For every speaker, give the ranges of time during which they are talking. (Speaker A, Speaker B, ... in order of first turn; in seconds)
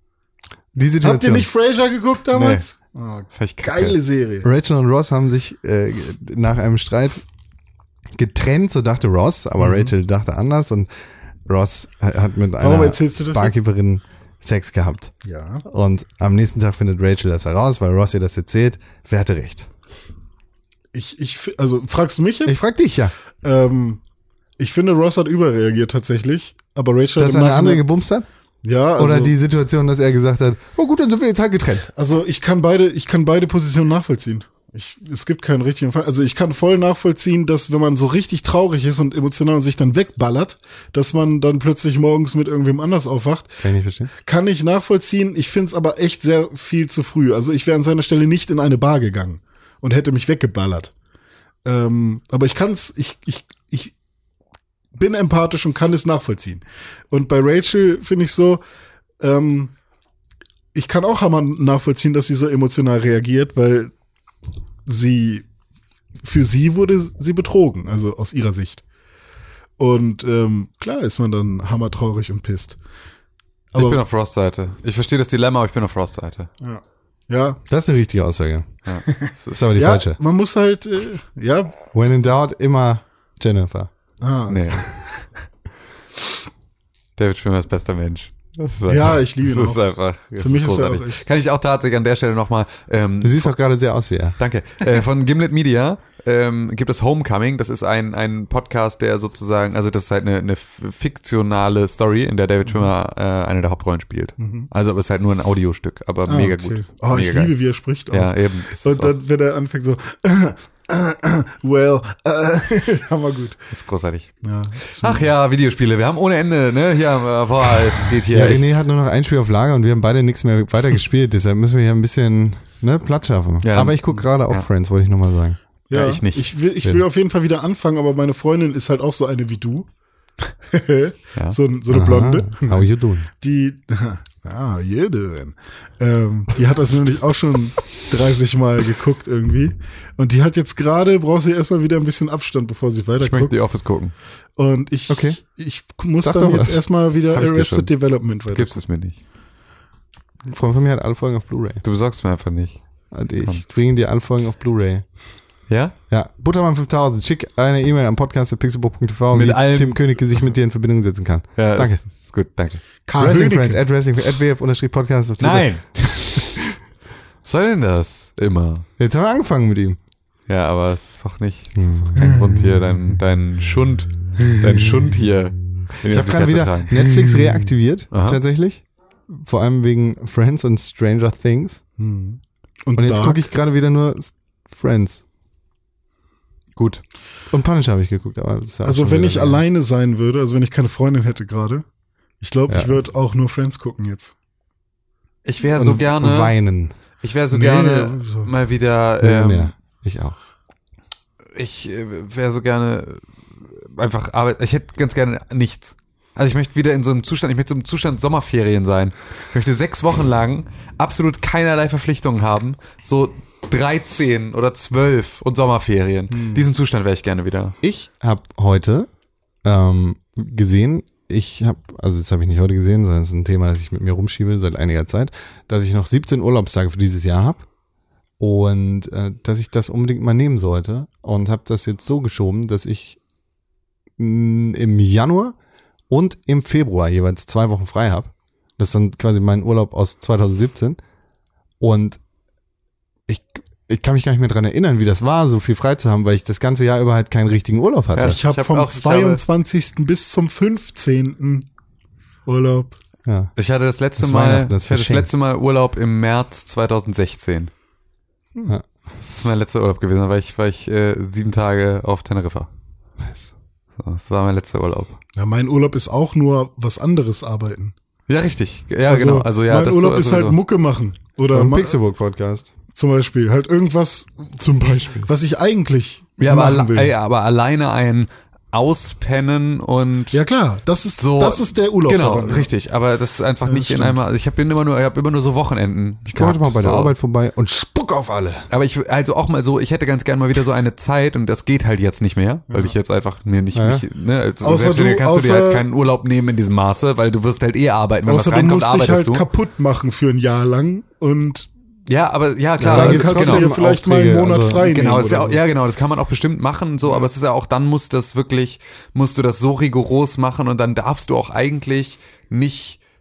Speaker A: 0.7-1.5, 4.4-7.2, 8.1-10.9, 11.4-15.1, 15.7-19.7, 22.4-23.1, 27.2-28.3, 29.0-31.9, 43.6-44.1, 77.7-78.8, 79.5-80.2, 81.9-83.9, 93.2-94.4, 118.3-125.6, 131.9-133.3, 145.1-145.4, 146.2-146.8, 150.5-151.8, 153.1-155.3, 156.1-162.0, 163.2-166.1, 169.0-170.0, 171.7-172.3, 176.0-181.8, 182.9-185.2, 187.5-189.6, 192.7-192.9, 195.7-196.9, 199.2-200.3, 217.8-219.1, 219.6-227.7, 228.4-233.2, 234.2-235.6, 236.1-241.0, 241.8-242.2, 243.3-248.4, 253.2-253.5, 254.2-255.3, 263.2-263.5, 271.5-272.7, 274.6-275.3, 286.3-288.7, 293.7-294.0, 302.8-304.8
Speaker B: 1.0-4.5, 9.6-9.9, 12.6-13.6, 15.2-15.6, 20.9-22.6, 23.4-24.0, 24.6-27.8, 28.6-29.4, 31.9-43.7, 44.2-50.9, 51.6-53.9, 54.9-58.6, 59.2-59.7, 60.7-63.9, 64.8-65.5, 66.2-68.8, 69.8-72.8, 73.7-74.0, 76.6-77.6, 79.1-81.8, 84.2-84.9, 88.9-91.3, 104.4-104.7, 106.3-113.7, 114.4-115.3, 125.9-129.9, 130.7-132.8, 133.4-143.7, 144.6-148.8, 163.1-163.8, 182.0-183.4, 188.8-191.8, 192.4-194.3, 197.5-198.5, 216.3-216.6, 248.2-251.7, 252.4-253.0, 265.3-267.9, 269.1-272.0, 272.9-277.1, 280.3-282.7, 283.6-284.2, 292.7-292.9, 294.6-295.8, 298.2-301.7, 302.8-305.6
Speaker C: 2.3-2.6, 3.3-4.0, 73.7-76.5, 78.8-79.8, 84.5-85.2, 87.2-93.5, 94.4-107.5, 108.1-109.1, 113.7-118.8, 123.6-124.7, 125.9-126.5, 143.2-144.1, 147.3-147.9, 148.5-149.2, 151.8-152.8, 155.7-155.9, 159.3-160.1, 161.6-162.8, 165.4-166.5, 167.4-168.8, 170.5-177.0, 178.1-178.4, 186.8-187.0, 195.4-196.6, 197.2-199.7, 201.5-217.7, 248.1-249.4, 253.6-257.7, 259.2-262.7, 264.0-265.1, 268.3-270.6, 276.4-280.4, 281.2-287.1, 288.7-299.4, 302.1-303.7, 304.8-313.0